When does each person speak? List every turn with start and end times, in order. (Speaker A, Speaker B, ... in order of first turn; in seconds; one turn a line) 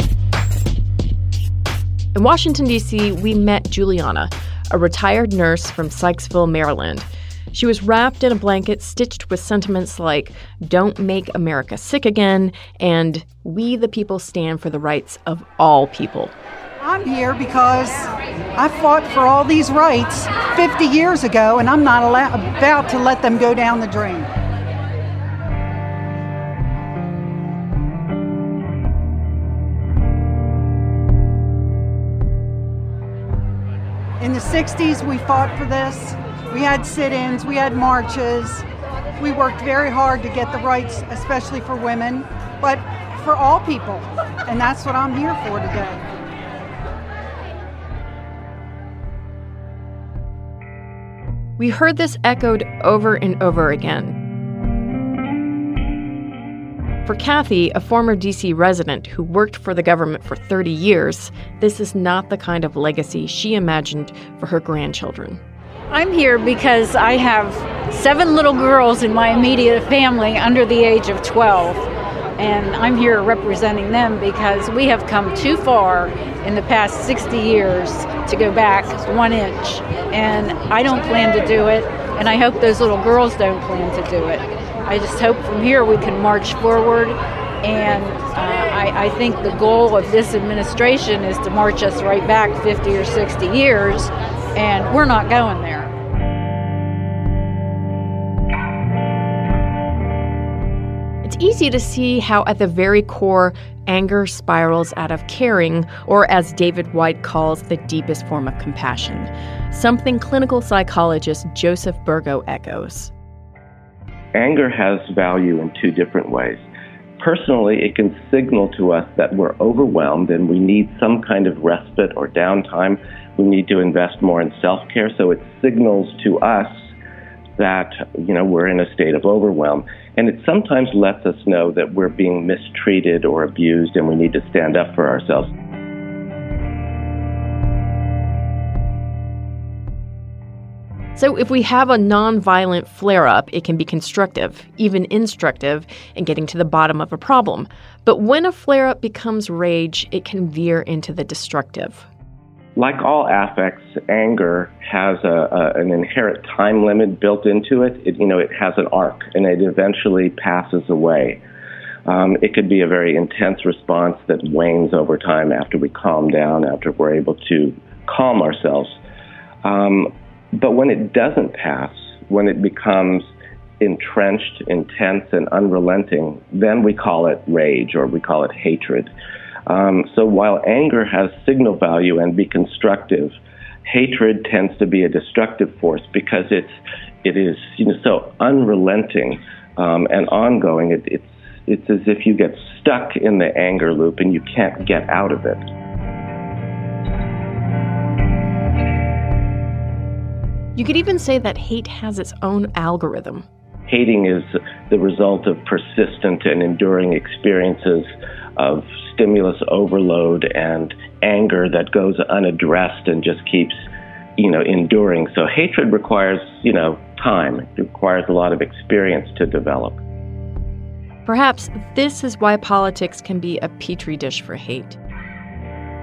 Speaker A: 2.1-16.3
Speaker B: 16.8-24.3
Speaker B: 34.2-38.6
Speaker B: 39.2-46.0
Speaker A: 51.6-54.2
Speaker A: 57.0-65.4
Speaker C: 65.9-71.9
Speaker C: 72.4-95.9
Speaker A: 101.2-113.1
Speaker D: 114.3-116.6
Speaker D: 117.2-126.9
Speaker D: 127.6-135.5
Speaker A: 141.2-152.1
Speaker D: 152.8-161.4
Speaker D: 162.1-169.0
Speaker D: 169.7-173.3
Speaker D: 173.8-179.1
Speaker D: 179.7-195.6
Speaker A: 200.8-203.5
Speaker D: 203.9-213.8
Speaker D: 214.4-220.0
Speaker A: 221.3-225.0